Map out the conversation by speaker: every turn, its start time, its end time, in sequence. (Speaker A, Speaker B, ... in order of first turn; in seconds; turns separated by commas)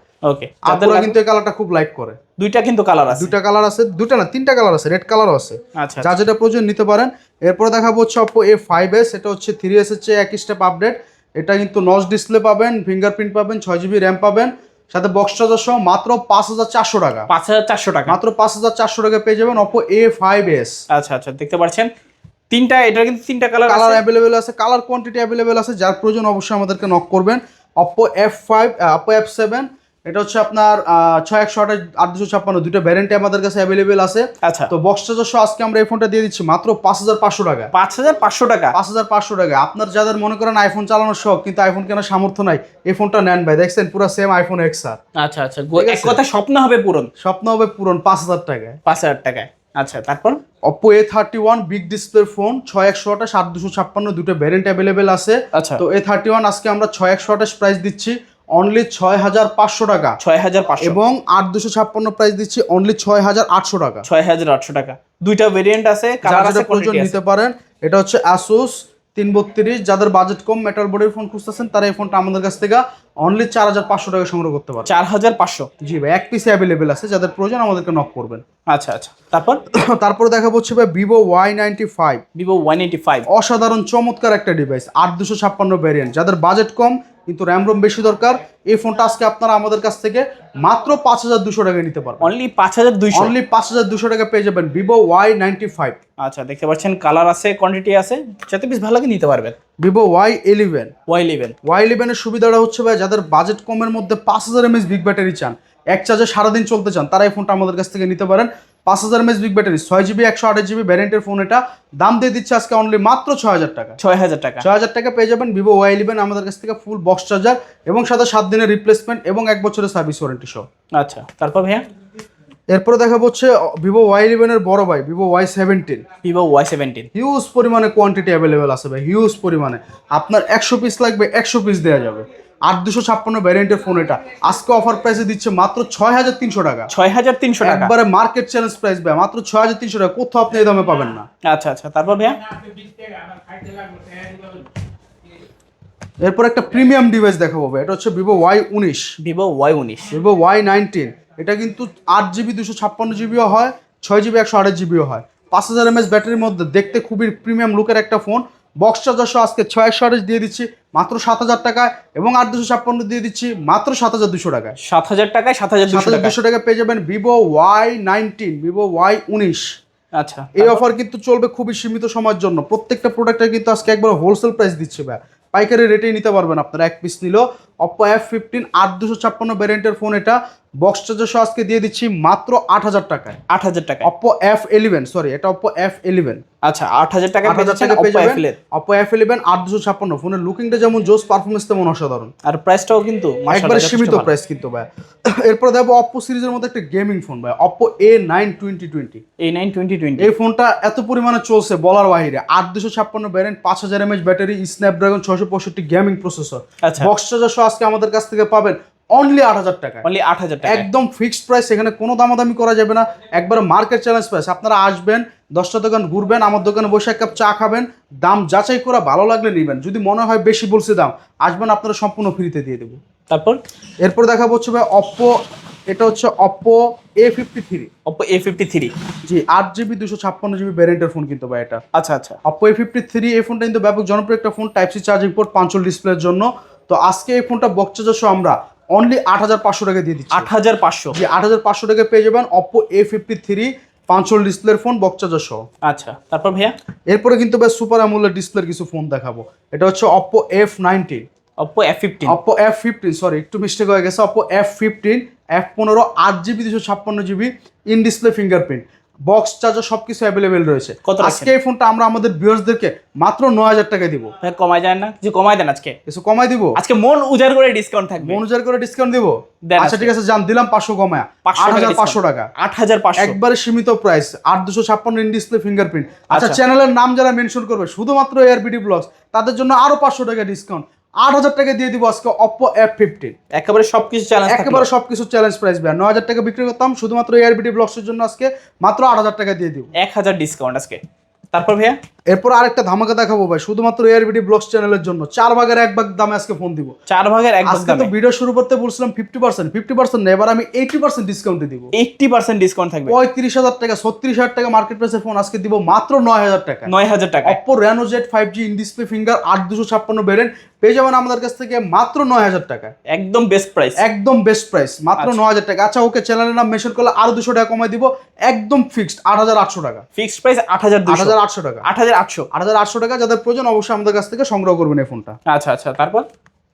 Speaker A: 0.2-1.2, Speaker B: 0.6-2.2, Speaker A: 2.4-3.3, Speaker B: 3.1-17.3, Speaker A: 5.8-6.2, Speaker A: 17.3-18.1, Speaker B: 18.1-20.7, Speaker A: 20.9-21.9, Speaker A: 22.5-24.0, Speaker B: 23.7-37.7, Speaker A: 34.4-34.7, Speaker A: 37.7-38.7, Speaker B: 38.7-45.0, Speaker A: 45.1-47.1, Speaker B: 45.8-46.2, Speaker B: 47.2-48.8, Speaker A: 48.9-50.4, Speaker B: 50.7-60.2, Speaker A: 55.5-55.8, Speaker A: 60.2-61.0, Speaker B: 60.8-64.0, Speaker A: 64.0-67.2, Speaker B: 66.2-74.9, Speaker A: 74.8-75.7, Speaker B: 75.8-78.4, Speaker A: 78.7-79.6, Speaker B: 79.8-82.2, Speaker A: 82.3-83.3, Speaker B: 83.3-92.3, Speaker A: 92.2-93.3, Speaker B: 93.1-96.0, Speaker A: 96.2-99.5, Speaker B: 99.8-100.9, Speaker A: 101.1-101.5, Speaker B: 101.7-114.0, Speaker A: 114.0-114.6, Speaker B: 114.6-120.6, Speaker A: 120.9-121.8, Speaker B: 122.7-126.0, Speaker A: 126.2-127.1, Speaker B: 127.1-136.9, Speaker A: 136.9-137.9, Speaker B: 137.6-141.2, Speaker A: 141.4-142.4, Speaker B: 146.2-149.1, Speaker A: 149.2-150.1, Speaker B: 150.1-164.7, Speaker A: 164.8-166.3, Speaker B: 165.9-169.6, Speaker A: 170.1-170.8, Speaker B: 170.6-183.4, Speaker A: 183.5-184.1, Speaker B: 184.0-186.4, Speaker A: 186.6-188.6, Speaker B: 187.4-192.3, Speaker A: 192.4-194.3, Speaker B: 193.5-199.2, Speaker A: 199.4-200.3, Speaker B: 200.2-210.0, Speaker A: 206.8-207.1, Speaker A: 210.0-210.9, Speaker B: 210.6-223.0, Speaker A: 223.3-223.6, Speaker B: 224.0-225.4, Speaker B: 225.9-227.9, Speaker A: 228.1-228.9, Speaker B: 229.2-231.8, Speaker A: 231.9-232.4, Speaker B: 232.4-240.5, Speaker A: 240.3-241.1, Speaker B: 241.1-245.6, Speaker A: 245.8-246.7, Speaker B: 247.1-251.2, Speaker A: 251.6-252.3, Speaker B: 252.3-264.3, Speaker A: 261.0-261.5, Speaker A: 264.4-265.9, Speaker B: 266.1-266.8, Speaker A: 266.8-268.4, Speaker B: 268.2-272.5, Speaker A: 269.6-270.1, Speaker A: 271.4-273.4, Speaker B: 273.2-283.3, Speaker A: 276.3-276.6, Speaker A: 283.5-284.9, Speaker B: 284.5-289.9, Speaker A: 290.0-291.0, Speaker A: 291.5-292.0, Speaker B: 292.3-296.9, Speaker A: 297.1-298.1, Speaker B: 297.6-301.9, Speaker A: 301.9-303.1, Speaker B: 303.1-306.9, Speaker A: 306.9-307.6, Speaker B: 307.4-312.9, Speaker A: 313.1-314.0, Speaker B: 314.0-320.0, Speaker A: 320.1-322.5, Speaker B: 321.1-321.9, Speaker B: 322.5-325.4, Speaker A: 325.5-326.2